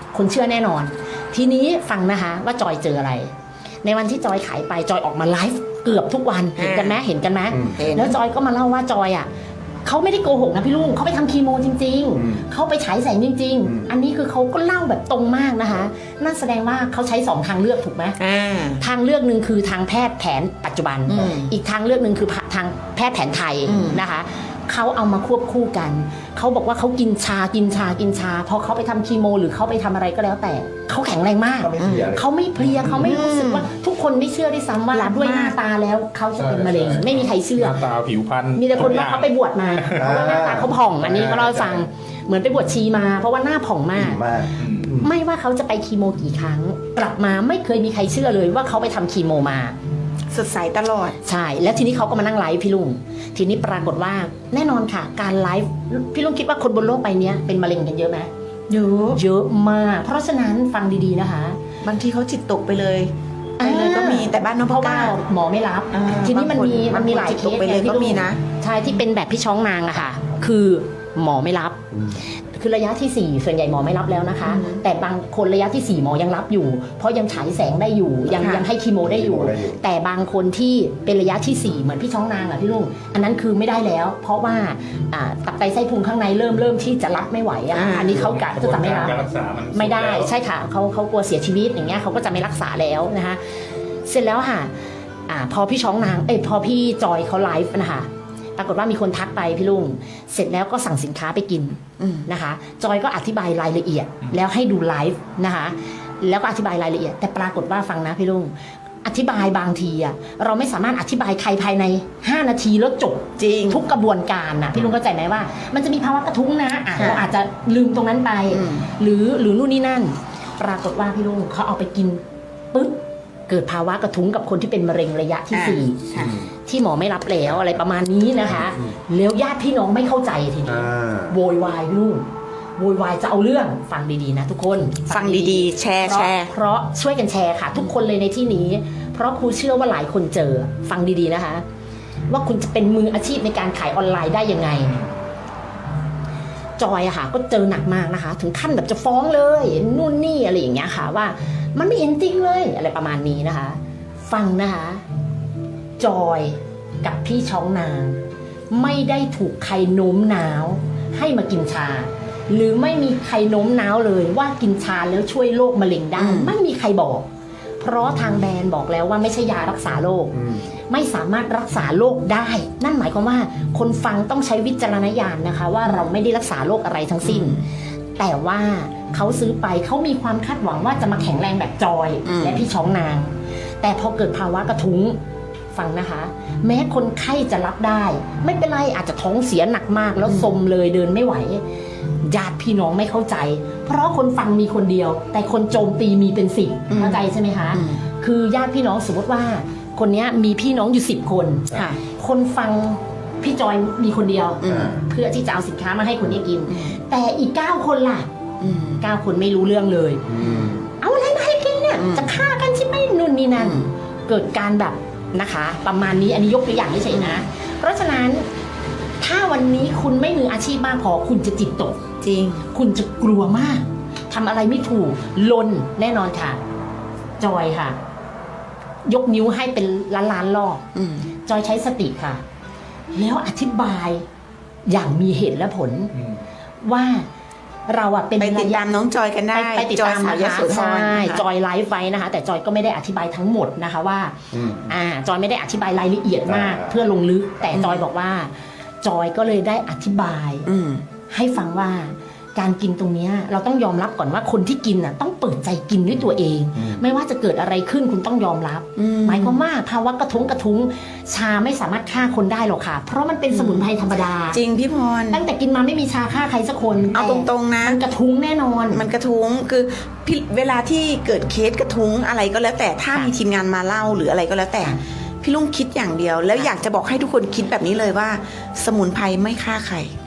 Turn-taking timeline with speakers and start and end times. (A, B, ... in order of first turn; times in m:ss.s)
0:00.1-0:03.3 A
0:03.8-0:09.3 A
0:06.6-0:07.0 B
0:07.8-0:08.1 B
0:09.8-0:18.2 A
0:18.2-0:18.8 B
0:18.8-0:37.8 A
0:21.1-0:21.5 B
0:23.6-0:24.0 B
0:31.6-0:32.3 C
0:31.8-0:32.1 B
0:32.9-0:33.7 B
0:34.9-0:35.6 B
0:36.4-0:40.0 D
0:38.5-0:49.8 A
0:40.0-0:40.7 C
0:41.0-0:41.8 D
0:44.0-0:45.1 C
0:44.6-0:44.9 D
0:50.3-0:51.2 B
0:51.2-0:58.3 A
0:58.7-0:59.2 B
0:59.1-1:01.6 A
1:01.8-1:05.2 B
1:03.6-1:29.2 A
1:05.9-1:08.4 B
1:14.4-1:14.8 B
1:18.4-1:18.7 B
1:19.1-1:19.8 C
1:27.7-1:28.2 B
1:28.0-1:30.3 D
1:29.7-1:33.4 A
1:34.0-1:34.7 A
1:35.3-2:21.6 A
1:42.0-1:42.3 B
1:53.4-1:53.8 B
1:57.0-1:57.2 B
1:58.5-1:58.9 B
2:05.5-2:06.4 B
2:10.7-2:11.3 C
2:15.1-2:16.5 B
2:22.3-2:25.0 A
2:26.8-2:35.0 A
2:36.0-2:47.3 A
2:46.2-2:46.5 B
2:47.8-2:57.6 A
2:57.2-2:57.6 B
2:58.2-3:05.2 A
3:02.2-3:02.7 B
3:05.7-3:11.6 A
3:10.2-3:10.5 B
3:12.2-3:28.3 A
3:16.9-3:18.0 B
3:21.7-3:22.0 B
3:24.6-3:24.9 B
3:24.7-3:25.0 C
3:26.7-3:27.0 B
3:28.6-3:29.0 B
3:29.0-3:30.2 A
3:30.3-3:30.8 C
3:31.0-3:38.5 A
3:32.0-3:32.3 B
3:33.6-3:33.9 B
3:37.1-3:37.4 B
3:39.2-3:42.0 A
3:42.2-3:42.6 B
3:42.7-3:46.6 A
3:47.4-3:48.0 A
3:49.0-3:50.8 A
3:50.9-3:51.3 B
3:51.4-3:52.4 A
3:53.1-3:54.2 A
3:54.9-3:56.1 A
3:56.8-3:57.3 A
3:57.9-3:58.8 A
3:58.4-4:01.4 B
3:59.5-4:10.7 A
4:06.5-4:06.8 C
4:07.7-4:08.0 B
4:10.6-4:11.0 B
4:11.3-4:24.6 A
4:19.0-4:19.6 B
4:23.5-4:23.9 B
4:24.5-4:25.4 B
4:25.3-4:29.0 A
4:27.1-4:28.0 B
4:28.9-4:40.1 B